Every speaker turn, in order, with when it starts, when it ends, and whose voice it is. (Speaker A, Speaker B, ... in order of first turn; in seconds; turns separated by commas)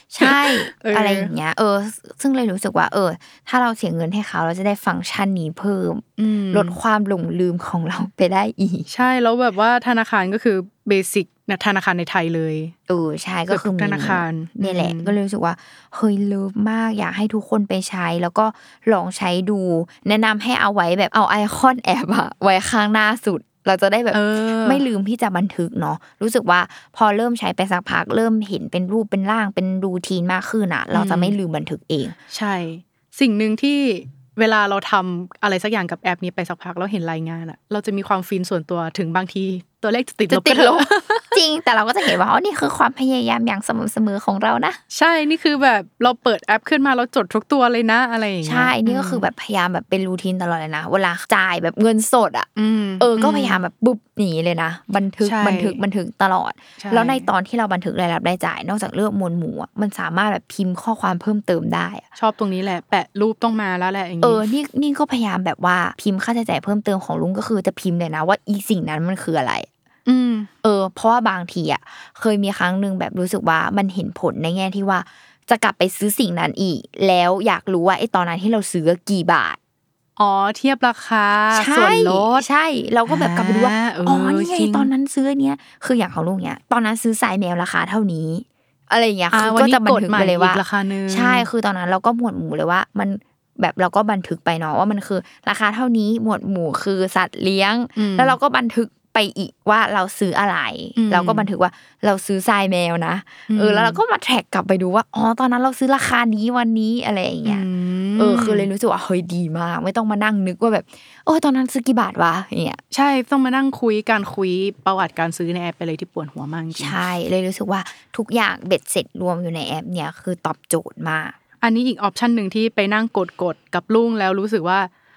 Speaker A: 0.1-8.9, Speaker B: 0.7-1.3, Speaker B: 6.2-6.8, Speaker B: 8.9-12.7, Speaker A: 12.9-32.2, Speaker B: 13.5-15.0, Speaker B: 24.1-24.7, Speaker B: 32.3-41.1, Speaker A: 40.3-44.8, Speaker B: 44.9-48.8, Speaker A: 48.4-52.5, Speaker B: 52.6-53.0, Speaker A: 53.0-62.0, Speaker B: 55.2-55.7, Speaker B: 62.2-64.4, Speaker A: 64.2-69.7, Speaker B: 70.1-70.5, Speaker A: 70.6-79.6, Speaker B: 80.2-82.5, Speaker A: 81.5-112.8, Speaker B: 83.2-84.9, Speaker B: 89.3-91.4, Speaker B: 107.5-108.3, Speaker B: 112.9-116.8, Speaker A: 116.8-121.4, Speaker B: 121.6-124.9